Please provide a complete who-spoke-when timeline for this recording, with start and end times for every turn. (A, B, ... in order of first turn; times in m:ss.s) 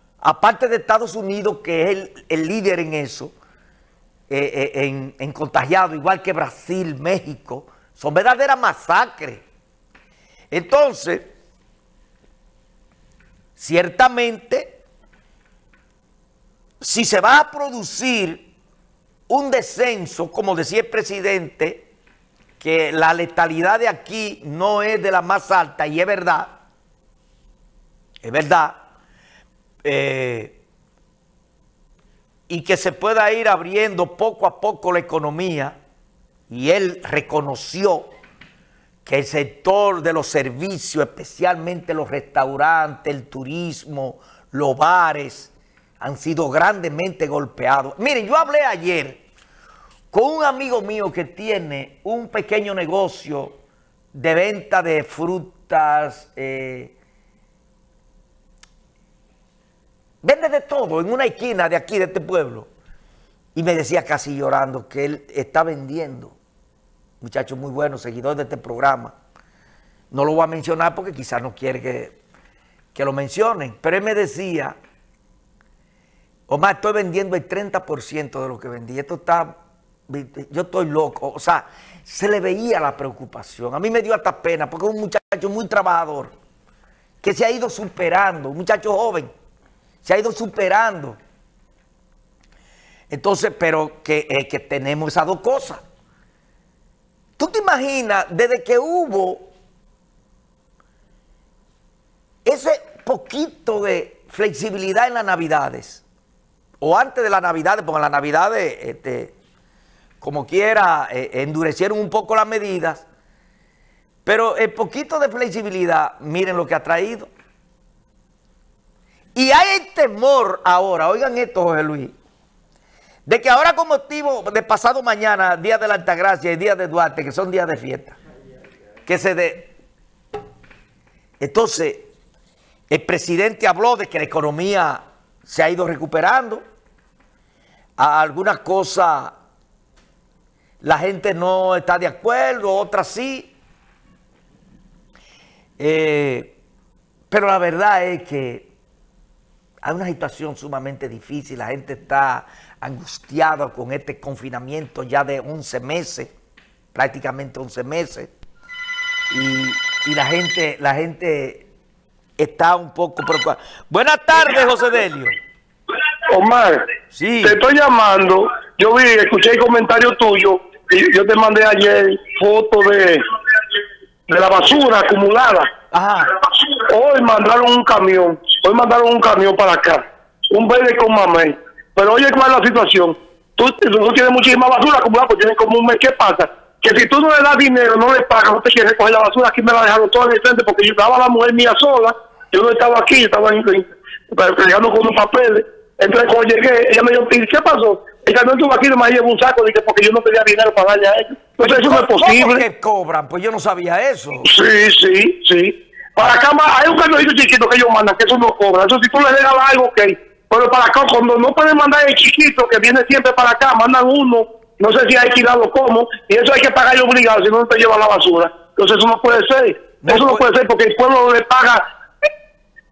0:00.2-0:03.3 A
0:04.3-0:09.4 A
0:10.5-0:11.3 A
0:13.6-0:14.8 A
0:16.8-0:18.5 A
0:19.3-0:21.9 A
0:22.6-0:26.5 A
0:28.2-0:28.8 A
0:29.8-0:30.6 A
0:32.5-0:35.7 A
0:36.5-0:38.1 A
0:39.0-0:49.2 A
0:50.1-0:53.5 A
0:54.1-0:56.9 A
1:00.2-1:02.7 A
1:03.5-1:06.4 A
1:07.2-1:09.1 A
1:10.1-1:12.2 A
1:12.9-1:14.8 A
1:16.5-1:19.5 A
1:20.1-1:26.3 A
1:27.2-1:29.3 A
1:30.0-1:31.2 A
1:33.1-1:35.8 A
1:37.4-1:39.5 A
1:42.4-1:46.0 A
1:46.8-1:49.3 A
1:50.2-1:53.0 A
1:54.2-1:57.3 A
1:59.3-2:02.1 A
2:03.2-2:08.2 A
2:09.0-2:09.7 A
2:11.4-2:12.1 A
2:12.9-2:16.6 A
2:18.0-2:19.3 A
2:20.8-2:23.5 A
2:25.8-2:26.6 A
2:27.3-2:28.7 A
2:29.8-2:36.3 A
2:36.9-2:38.3 A
2:39.3-2:41.7 A
2:42.4-2:45.4 A
2:46.3-2:46.8 B
2:47.1-2:47.6 A
2:47.4-2:53.2 B
2:54.3-2:55.7 B
2:55.9-2:56.3 A
2:56.7-3:22.6 B
3:21.6-3:24.5 A
3:24.4-3:41.8 B
3:40.0-3:40.4 A